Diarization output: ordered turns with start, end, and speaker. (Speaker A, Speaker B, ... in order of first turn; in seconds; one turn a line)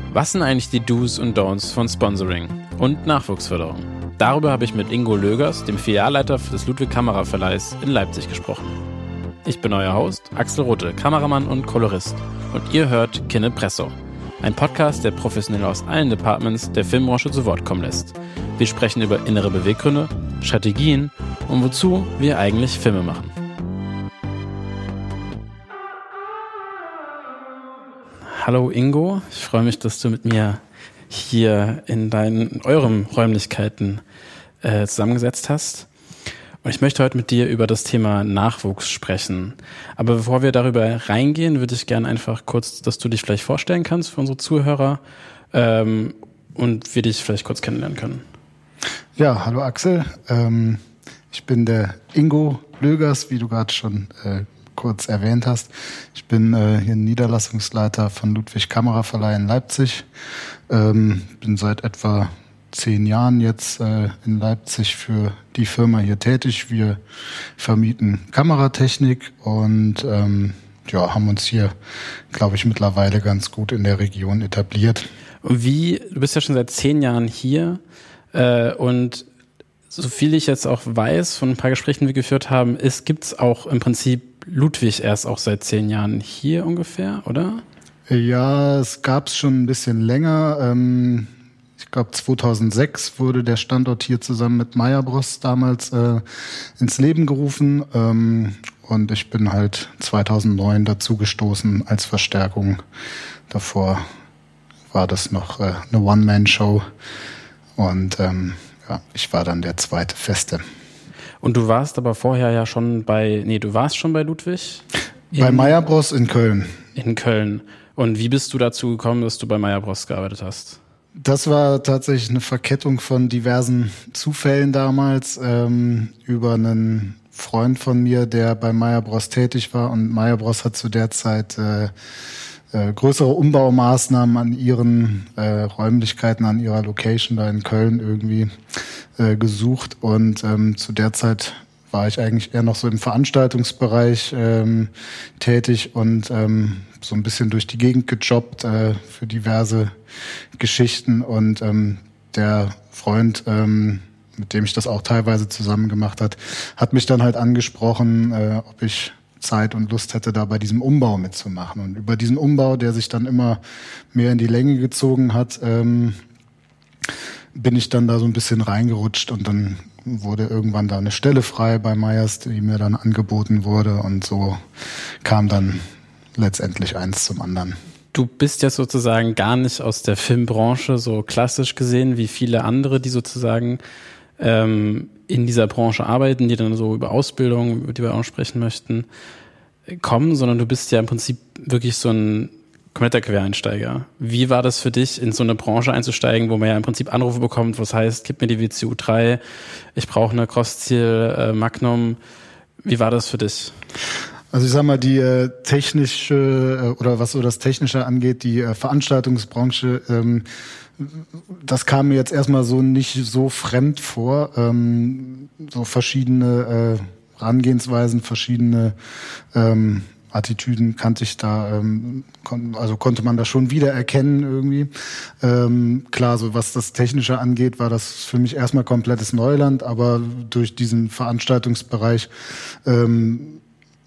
Speaker A: 0.1-8.8
Speaker A: 9.4-23.3
Speaker A: 28.3-34.0
Speaker A: 34.6-35.9
Speaker A: 36.6-45.0
Speaker A: 45.5-48.2
Speaker B: 49.2-60.1
Speaker B: 60.7-67.0
Speaker B: 67.6-71.7
Speaker B: 72.3-75.1
Speaker A: 75.4-77.8
Speaker A: 78.3-79.3
Speaker A: 79.9-87.6
Speaker B: 88.1-96.2
Speaker B: 96.8-102.8
Speaker B: 103.5-104.0
Speaker B: 104.9-106.8
Speaker B: 107.8-110.6
Speaker A: 111.4-115.8
Speaker B: 115.3-116.8
Speaker A: 117.0-120.8
Speaker B: 121.2-131.9
Speaker B: 132.7-138.5
Speaker B: 139.2-149.9
Speaker B: 150.6-163.6
Speaker B: 164.1-166.2
Speaker B: 167.5-174.6
Speaker B: 175.2-175.8
Speaker B: 176.4-177.8
Speaker A: 178.1-183.8
Speaker A: 184.4-189.1
Speaker A: 189.9-199.4
Speaker A: 199.9-202.2
Speaker A: 202.8-203.8
Speaker B: 204.5-210.5
Speaker B: 211.0-218.9
Speaker B: 219.5-232.3
Speaker B: 232.8-233.6